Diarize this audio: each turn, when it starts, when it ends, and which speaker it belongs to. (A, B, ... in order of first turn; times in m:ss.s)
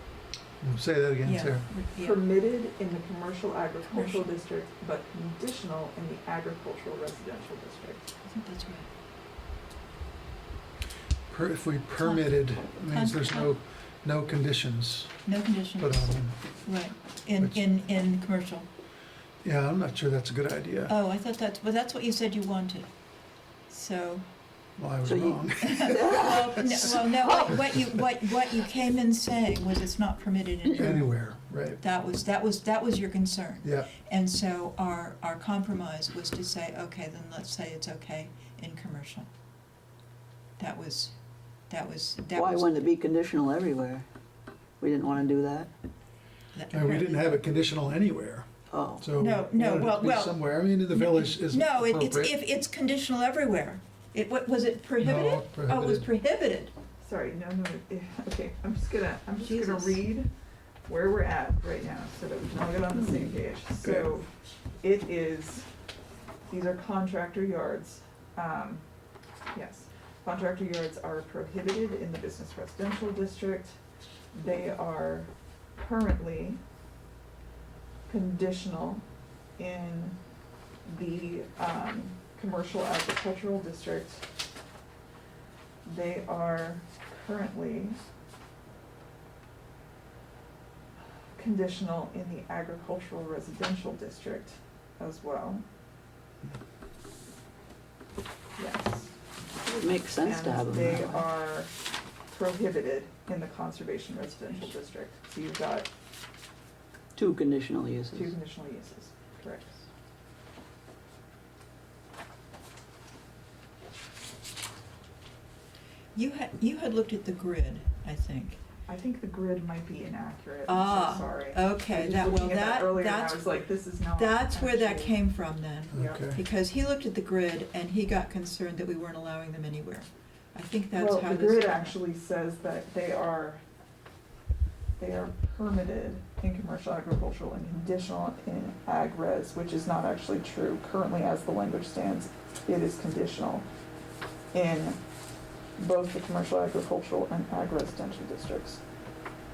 0:00.6-0:01.7 A
0:01.2-0:02.2 B
0:01.9-0:08.1 C
0:03.9-0:04.3 B
0:08.2-0:08.9 B
0:11.3-0:15.3 A
0:12.0-0:13.5 B
0:15.2-0:16.0 B
0:15.8-0:16.5 A
0:16.6-0:18.7 B
0:19.4-0:20.9 A
0:20.9-0:22.9 B
0:23.7-0:24.2 B
0:24.8-0:26.9 A
0:25.0-0:27.5 D
0:25.6-0:39.3 B
0:30.7-0:31.8 A
0:33.6-0:33.9 A
0:40.6-0:41.1 B
0:41.7-0:42.9 B
0:42.3-0:44.0 D
0:44.8-0:45.7 D
0:46.5-0:47.3 B
0:46.7-0:52.3 A
0:48.7-0:49.1 D
0:49.2-0:56.7 B
0:55.0-0:56.1 A
0:57.0-1:00.3 C
0:59.4-1:00.0 B
1:00.8-1:04.3 C
1:04.8-1:05.7 C
1:06.5-1:08.8 C
1:09.5-1:13.8 C
1:14.3-1:16.6 C
1:18.1-1:19.0 C
1:19.6-1:20.2 C
1:20.8-1:24.3 C
1:25.8-1:28.0 C
1:31.4-1:35.6 C
1:38.6-1:39.1 C
1:39.6-1:41.2 D
1:40.2-1:41.7 C
1:42.3-1:45.9 C
1:47.1-1:48.3 D
1:48.1-1:49.8 C
1:56.1-1:58.6 B
1:58.8-2:05.2 C
2:00.7-2:03.4 B
2:04.1-2:12.0 B
2:05.9-2:06.4 A
2:05.9-2:06.3 C
2:10.9-2:13.6 C
2:15.0-2:23.7 C
2:24.5-2:25.0 C
2:25.8-2:28.8 C